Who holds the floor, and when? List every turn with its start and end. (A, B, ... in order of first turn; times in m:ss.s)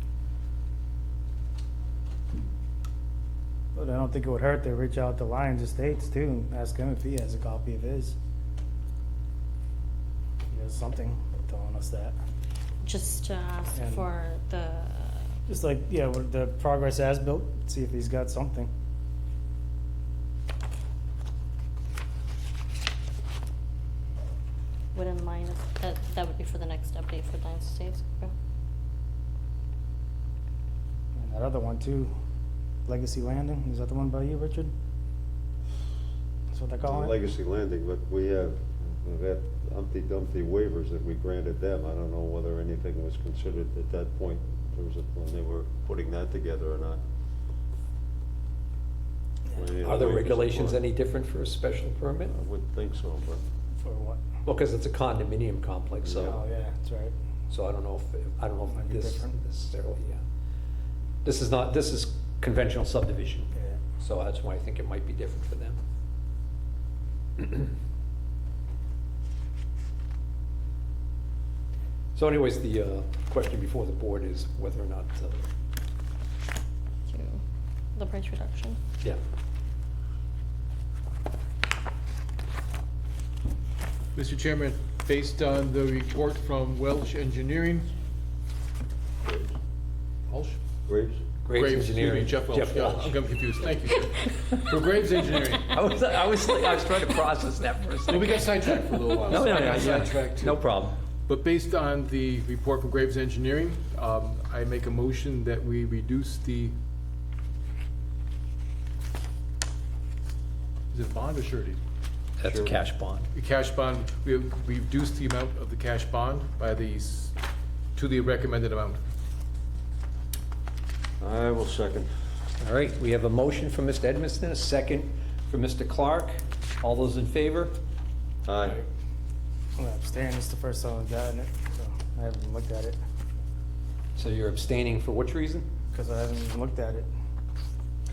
0:03.7-0:08.2 A
0:10.5-0:12.2 A
0:12.8-0:15.2 B
0:13.7-0:14.0 A
0:15.5-0:18.7 A
0:24.9-0:28.3 B
0:31.1-0:32.1 A
0:32.8-0:34.7 A
0:36.5-0:37.2 A
0:36.8-0:47.0 C
0:49.5-0:50.8 C
0:49.8-0:52.3 D
0:52.3-0:53.4 C
0:53.8-0:54.2 A
0:54.4-0:56.4 D
0:56.0-0:56.4 C
0:56.2-0:57.1 A
0:57.5-1:00.2 D
0:58.7-0:59.3 A
1:01.2-1:05.8 D
1:03.5-1:03.8 A
1:07.4-1:07.6 D
1:12.1-1:15.4 D
1:17.1-1:17.4 B
1:17.9-1:18.8 B
1:24.2-1:27.9 E
1:29.2-1:29.5 C
1:30.3-1:30.6 E
1:30.9-1:31.2 C
1:31.4-1:33.2 D
1:31.5-1:35.7 E
1:35.7-1:40.9 D
1:38.1-1:40.7 E
1:41.3-1:46.7 E
1:50.9-1:51.8 E
1:52.4-1:53.3 D
1:52.4-1:52.8 C
1:53.3-1:57.3 E
1:58.0-1:59.0 E
2:01.2-2:02.1 C
2:02.6-2:07.7 D
2:08.4-2:08.8 C
2:09.8-2:13.0 A
2:14.2-2:15.7 D
2:15.9-2:17.1 A